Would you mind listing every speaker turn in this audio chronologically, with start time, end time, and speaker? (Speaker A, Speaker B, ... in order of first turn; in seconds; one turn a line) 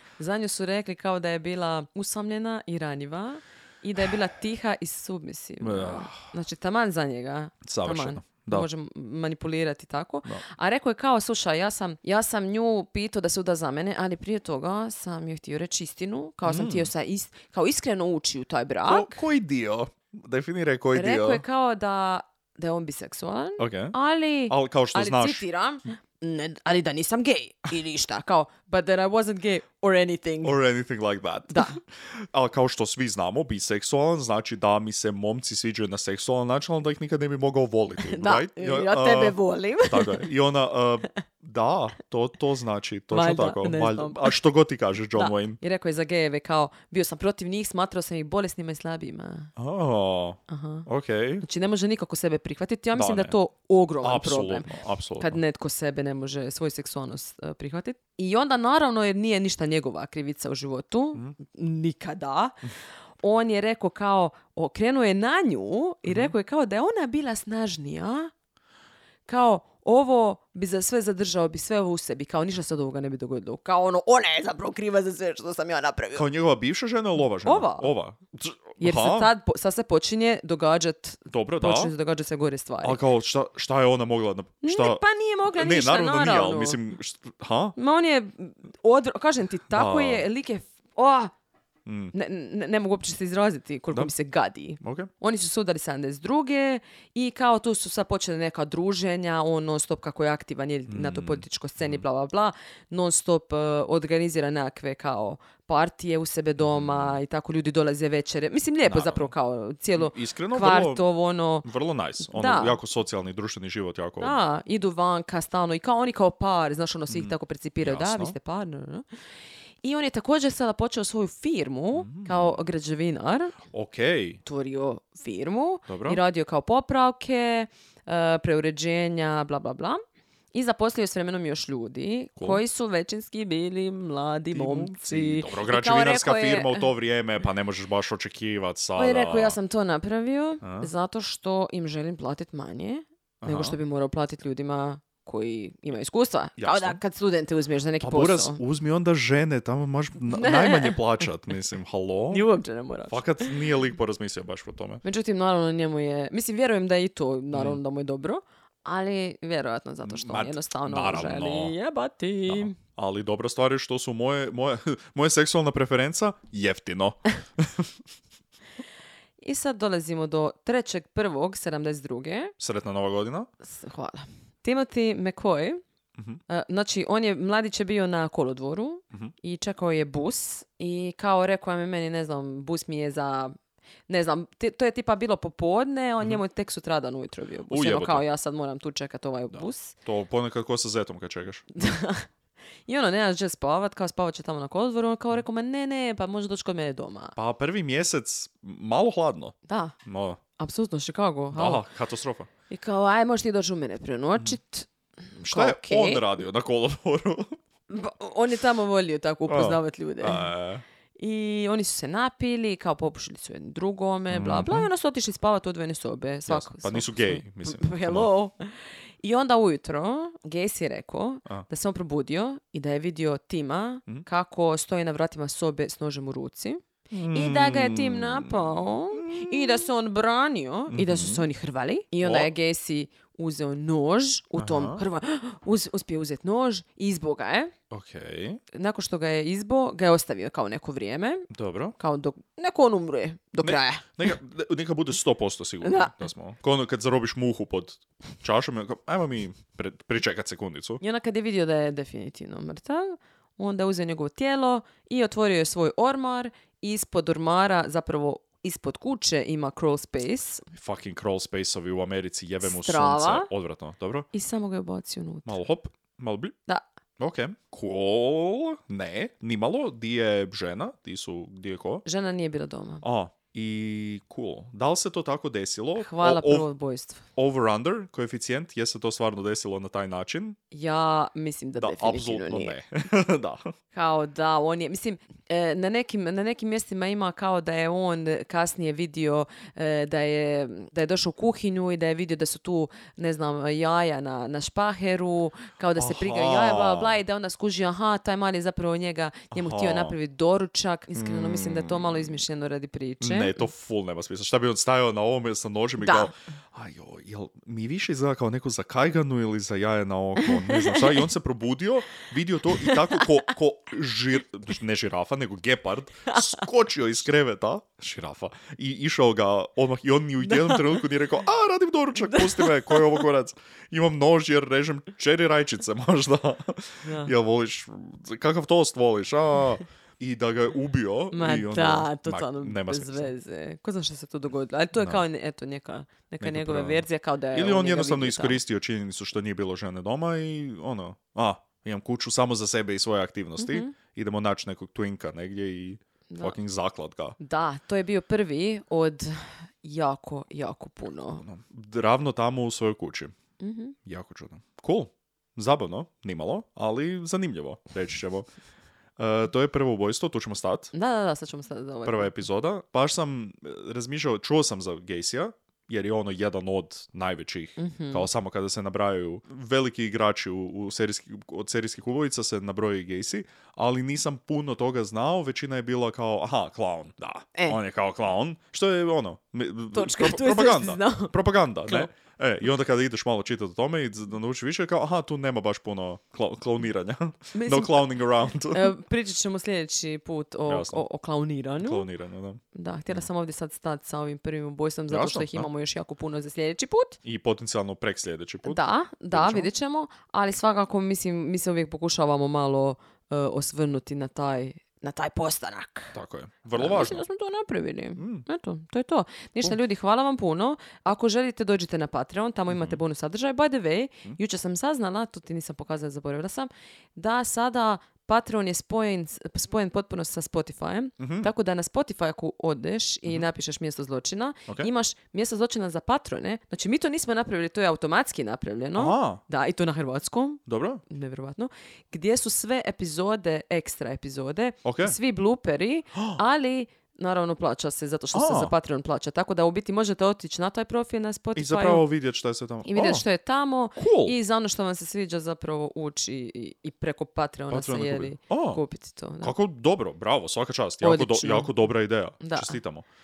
Speaker A: 0.2-19.2
Speaker B: 5.6-6.2
Speaker B: 7.6-8.7
Speaker B: 16.4-16.9
Speaker B: 18.8-21.4
Speaker A: 20.9-30.6
Speaker B: 23.6-23.9
Speaker B: 24.5-25.4
Speaker B: 30.4-45.6
Speaker A: 31.5-31.8
Speaker A: 38.0-40.3
Speaker A: 43.1-44.3
Speaker A: 45.1-49.5
Speaker B: 49.6-51.4
Speaker A: 50.5-50.9
Speaker A: 51.4-62.7
Speaker B: 52.9-53.3
Speaker B: 54.0-55.4
Speaker A: 63.2-68.3
Speaker B: 66.0-66.3
Speaker A: 69.2-76.3
Speaker B: 76.1-79.3
Speaker A: 77.4-77.9
Speaker A: 78.8-83.0
Speaker B: 81.3-81.9
Speaker B: 82.8-85.0
Speaker A: 84.6-86.8
Speaker B: 85.5-87.7
Speaker A: 87.8-91.3
Speaker B: 89.7-90.2
Speaker B: 91.8-92.1
Speaker A: 92.1-111.7
Speaker B: 94.8-95.1
Speaker B: 100.9-102.0
Speaker B: 106.6-107.2
Speaker B: 108.8-109.3
Speaker B: 110.0-111.0
Speaker B: 111.6-114.4
Speaker A: 112.2-112.8
Speaker A: 114.2-119.0
Speaker B: 117.1-118.3
Speaker A: 119.8-123.5
Speaker B: 122.0-122.5
Speaker B: 123.7-124.4
Speaker A: 124.4-130.0
Speaker B: 125.9-126.2
Speaker A: 130.5-136.9
Speaker B: 132.4-132.6
Speaker B: 134.5-139.6
Speaker A: 138.9-148.6
Speaker B: 140.6-140.9
Speaker B: 143.4-143.8
Speaker B: 146.6-147.0
Speaker B: 148.0-152.4
Speaker A: 150.3-151.0
Speaker A: 152.3-153.5
Speaker B: 153.1-155.0
Speaker A: 155.0-162.8
Speaker B: 157.5-157.8
Speaker B: 160.0-161.7
Speaker B: 162.5-167.9
Speaker A: 169.4-172.5
Speaker B: 172.6-173.5
Speaker A: 173.6-175.8
Speaker A: 176.5-183.5
Speaker A: 184.1-189.9
Speaker B: 187.7-188.2
Speaker B: 189.5-191.9
Speaker A: 191.7-192.3
Speaker A: 192.8-197.3
Speaker B: 197.3-200.4
Speaker A: 199.7-199.9
Speaker A: 200.6-201.8
Speaker B: 201.5-202.5
Speaker A: 202.7-206.3
Speaker B: 205.4-207.6
Speaker A: 207.9-210.5
Speaker B: 209.5-210.8
Speaker A: 211.2-237.7
Speaker B: 214.3-214.9
Speaker B: 216.5-218.3
Speaker B: 227.1-229.9
Speaker B: 230.9-231.4
Speaker B: 232.2-232.5
Speaker B: 234.6-235.0
Speaker B: 237.9-238.6
Speaker A: 238.7-244.3
Speaker B: 241.5-241.9
Speaker B: 243.6-251.0
Speaker A: 245.8-246.1
Speaker A: 251.0-260.7
Speaker B: 260.7-264.3
Speaker A: 262.6-263.5
Speaker A: 264.3-265.6
Speaker B: 265.4-266.5
Speaker B: 267.2-272.0
Speaker A: 272.0-273.0
Speaker B: 273.0-276.6
Speaker A: 276.0-277.2
Speaker B: 277.4-280.6
Speaker A: 280.7-282.7
Speaker B: 281.8-283.7
Speaker A: 283.9-303.7
Speaker B: 295.9-297.2
Speaker B: 299.5-300.1
Speaker B: 301.1-302.4
Speaker B: 303.2-333.3
Speaker A: 306.0-306.3
Speaker A: 310.4-311.2
Speaker A: 312.8-313.3
Speaker A: 316.3-316.6
Speaker A: 320.4-321.1
Speaker A: 322.2-323.2
Speaker A: 327.0-327.3
Speaker A: 331.3-338.6
Speaker B: 335.0-335.2
Speaker B: 336.4-347.4
Speaker A: 343.6-343.9
Speaker A: 346.3-346.6
Speaker A: 347.4-351.4
Speaker B: 351.4-353.3
Speaker A: 353.6-353.9
Speaker B: 354.0-358.5
Speaker B: 359.2-360.9
Speaker A: 360.9-362.4
Speaker B: 362.0-388.9
Speaker A: 367.8-368.3
Speaker A: 379.9-381.3
Speaker A: 387.5-388.1
Speaker A: 388.7-392.1
Speaker B: 390.7-391.0
Speaker B: 391.8-393.2
Speaker A: 392.7-397.2
Speaker B: 395.1-395.7
Speaker B: 397.2-399.7
Speaker A: 398.6-406.1
Speaker B: 406.1-407.2
Speaker A: 406.8-442.0
Speaker B: 408.2-408.4
Speaker B: 412.7-413.0
Speaker B: 421.2-421.5
Speaker B: 428.9-429.4
Speaker B: 430.7-431.0
Speaker B: 434.8-435.2
Speaker B: 436.1-436.4
Speaker B: 438.3-438.7
Speaker B: 441.5-443.2
Speaker A: 442.8-449.5
Speaker B: 443.9-444.4
Speaker B: 447.7-448.8
Speaker B: 449.4-453.1
Speaker A: 451.0-451.7
Speaker A: 452.4-452.8